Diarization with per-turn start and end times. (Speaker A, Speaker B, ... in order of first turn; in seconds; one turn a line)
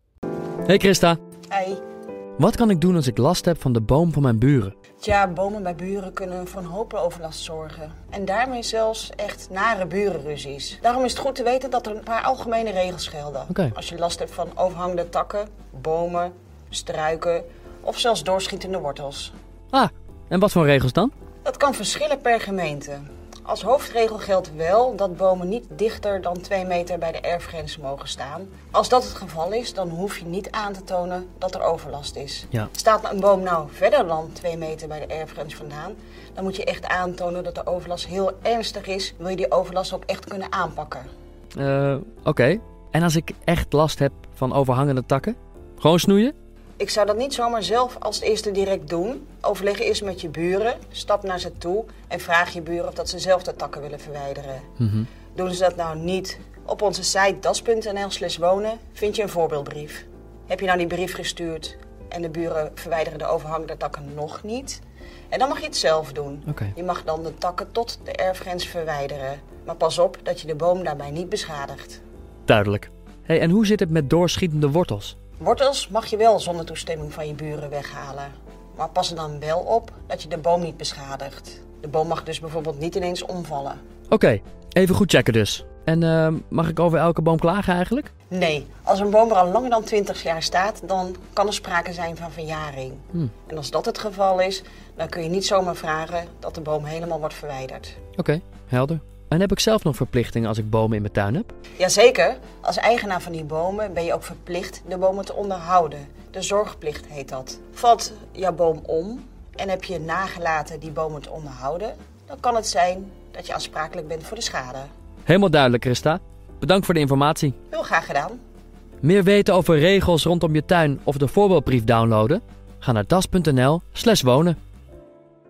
Speaker A: 0.7-1.2
Speaker B: 1.5-1.8
Speaker A: 2.4-4.7
Speaker B: 5.0-19.3
Speaker A: 19.7-21.1
Speaker B: 21.4-41.1
Speaker A: 41.6-46.3
Speaker B: 46.8-54.7
Speaker A: 54.8-55.1
Speaker B: 55.3-72.0
Speaker A: 66.5-66.7
Speaker A: 72.5-75.1
Speaker B: 75.4-83.8
Speaker A: 84.1-88.1
Speaker B: 88.3-98.0
Speaker A: 98.2-101.5
Speaker B: 101.8-114.9
Speaker A: 115.2-117.5
Speaker B: 117.7-118.4
Speaker A: 119.0-124.6